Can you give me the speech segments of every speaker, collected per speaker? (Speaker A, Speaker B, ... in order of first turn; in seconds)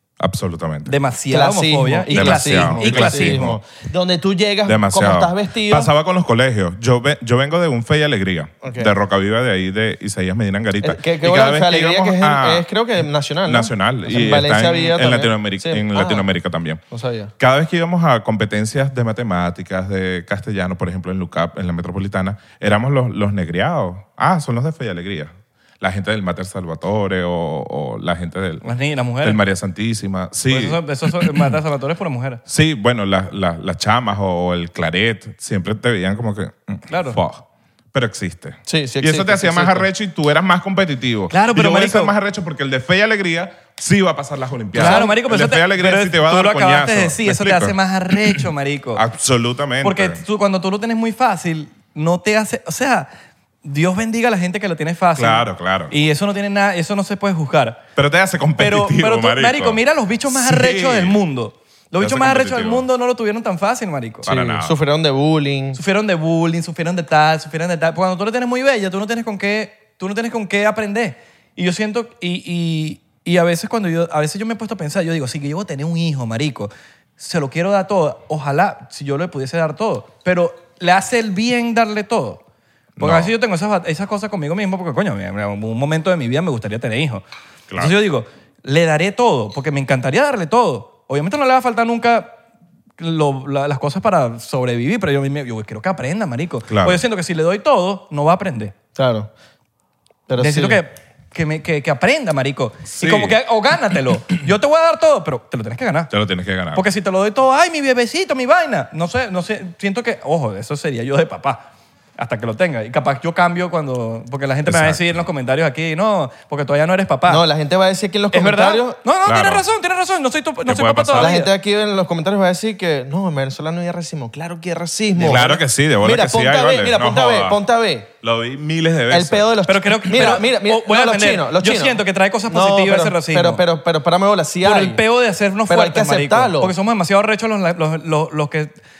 Speaker A: 0.2-0.9, 2.1-3.6, 4.6-12.7, 13.4-16.8, 17.4-28.6, 29.2-31.5, 32.5-47.7, 48.9-50.2, 55.1-55.9, 58.0-61.2, 62.0-62.8, 64.2-64.7, 83.0-83.3, 87.7-87.9, 96.7-97.0, 102.9-103.4, 106.1-106.8, 114.7-115.2, 119.2-119.6, 120.7-121.3, 125.2-127.6, 128.2-129.6
Speaker B: 0.8-3.5, 28.6-29.4, 30.5-32.4, 36.9-37.2, 41.3-42.1, 44.7-49.0, 49.8-53.1, 53.6-57.8, 58.6-64.3, 65.7-82.4, 83.0-87.2, 87.8-92.3, 93.0-98.7, 100.4-106.1, 106.7-111.7, 112.2-117.4, 118.3-121.5, 129.7-133.6, 134.6-138.7
Speaker C: 1.3-5.9, 8.6-8.9, 10.8-16.3, 16.9-17.3, 38.7-39.9, 44.7-45.1, 64.3-65.8, 99.0-99.3, 100.3-100.8, 117.3-119.0, 121.1-128.1, 129.1-135.0, 135.7-136.7